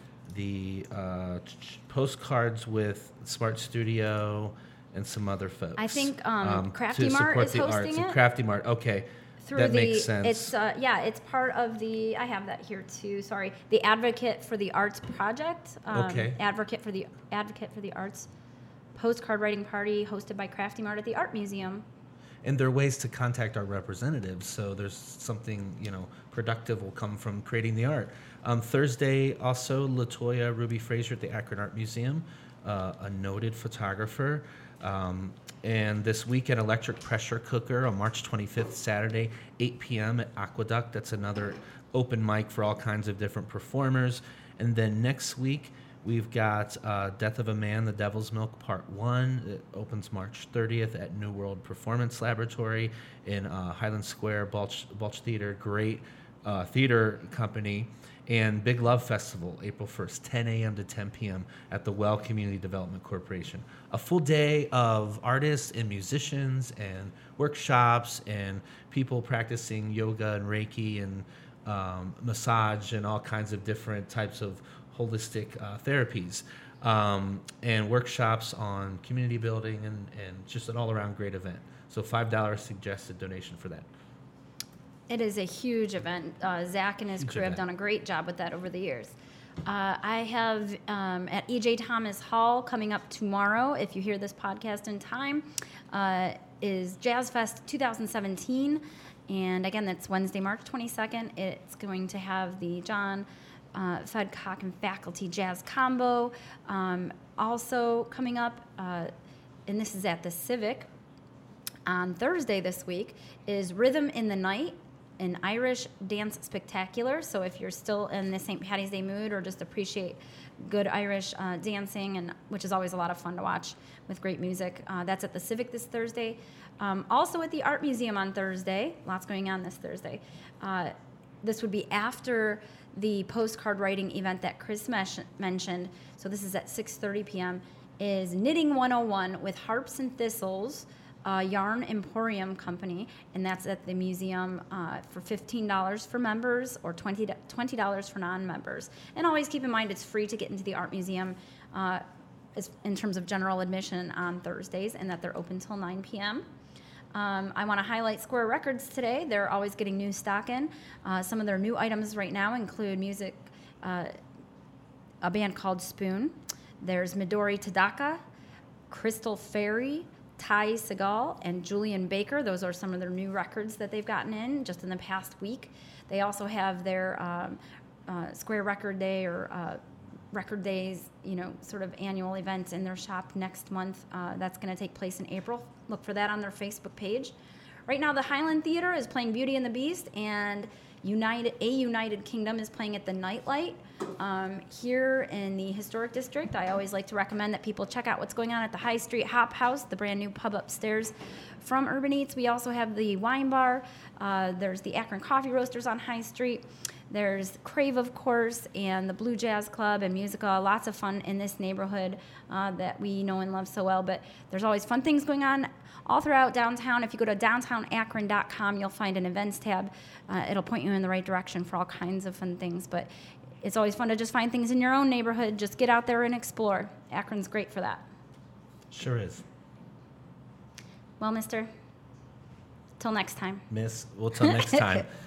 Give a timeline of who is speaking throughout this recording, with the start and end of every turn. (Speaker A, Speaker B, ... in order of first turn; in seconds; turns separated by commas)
Speaker A: 0.3-10.5, Speaker B: 5.8-8.2, Speaker B: 9.4-18.3, Speaker A: 15.9-16.4, Speaker B: 18.9-21.9, Speaker A: 22.4-83.9, Speaker B: 85.1-109.1, Speaker A: 87.2-87.6, Speaker B: 109.7-110.9, Speaker B: 111.9-152.0, Speaker B: 152.6-156.5, Speaker B: 157.1-164.1, Speaker B: 165.2-168.2, Speaker B: 168.9-179.8, Speaker B: 180.3-187.3, Speaker B: 187.9-223.1, Speaker B: 223.6-228.1, Speaker A: 228.9-229.4, Speaker B: 231.2-231.7, Speaker B: 233.0-233.6, Speaker A: 233.7-235.1, Speaker B: 234.4-235.0